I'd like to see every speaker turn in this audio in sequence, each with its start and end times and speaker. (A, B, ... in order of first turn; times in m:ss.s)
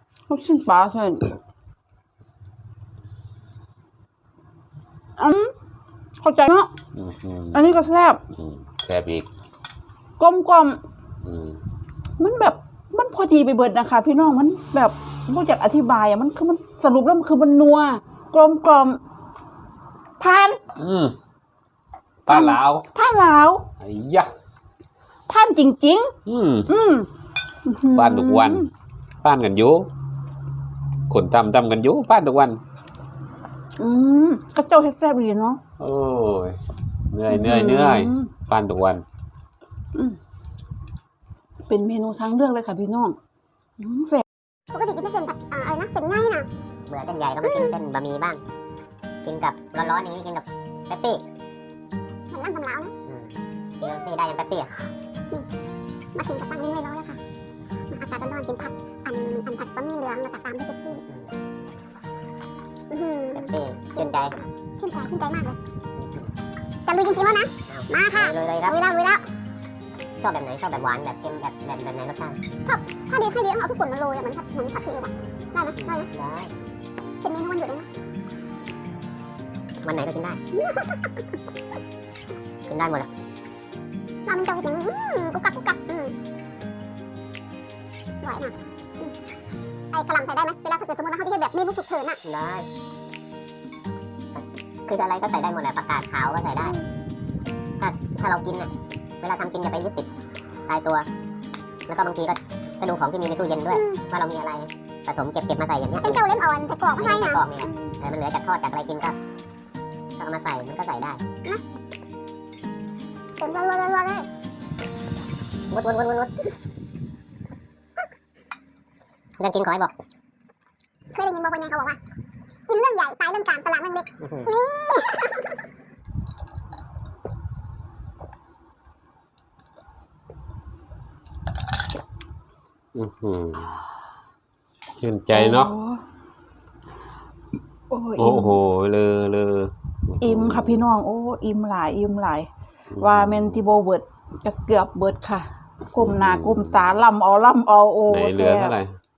0:00.3-0:01.3 A
0:05.2-0:05.5 A
0:06.2-0:06.7 A
0:06.9-0:07.6 B
0:07.5-0:08.2 A
0:08.3-0:09.3 B
0:10.2-0:10.8 A
0:11.2-0:11.6 B
0:12.2-0:19.0 A
0:20.2-0:20.6 A
0:20.7-0:21.2 B
0:22.2-0:22.8 B
0:22.3-0:23.6 A
0:23.8-0:24.3 B
0:25.3-0:26.1 A
0:26.2-0:26.7 B
0:26.7-0:27.1 A
0:27.6-0:28.7 A
0:27.9-0:28.7 B
0:29.2-0:29.9 B
0:31.1-0:32.6 B
0:33.8-0:35.6 A
0:35.8-0:39.0 B
0:37.3-0:38.3 A
0:41.7-0:43.2 A
0:43.8-0:44.2 A
0:44.7-0:46.5 C
0:46.9-0:48.4 D
0:47.4-0:47.8 C
0:49.2-0:51.2 D
0:52.3-0:52.9 C
0:53.1-0:54.7 D
0:56.1-0:57.2 C
0:57.9-1:01.0 C
1:01.1-1:01.3 D
1:02.9-1:05.6 C
1:03.3-1:04.4 D
1:06.0-1:06.3 D
1:06.9-1:09.2 C
1:07.7-1:08.8 D
1:10.2-1:12.4 D
1:12.6-1:16.1 C
1:15.8-1:16.5 D
1:17.2-1:17.9 C
1:19.8-1:20.4 D
1:20.6-1:21.2 C
1:22.7-1:23.1 D
1:24.2-1:26.2 C
1:28.2-1:29.1 C
1:29.9-1:32.2 C
1:32.2-1:32.6 D
1:34.4-1:36.7 D
1:37.8-1:40.1 D
1:40.7-1:41.0 D
1:41.9-1:46.2 D
1:43.7-1:44.0 C
1:46.0-1:47.9 C
1:47.0-1:49.2 D
1:50.2-1:51.2 D
1:53.4-1:54.3 C
1:55.7-1:56.3 D
1:59.4-1:59.9 D
2:01.1-2:02.0 C
2:02.7-2:05.5 C
2:04.2-2:04.5 D
2:12.9-2:13.8 B
2:15.0-2:15.7 B
2:15.3-2:16.0 A
2:17.9-2:18.6 A
2:18.2-2:20.8 B
2:20.2-2:22.5 A
2:22.9-2:23.6 B
2:23.0-2:28.8 A
2:25.9-2:27.0 B
2:28.1-2:29.0 B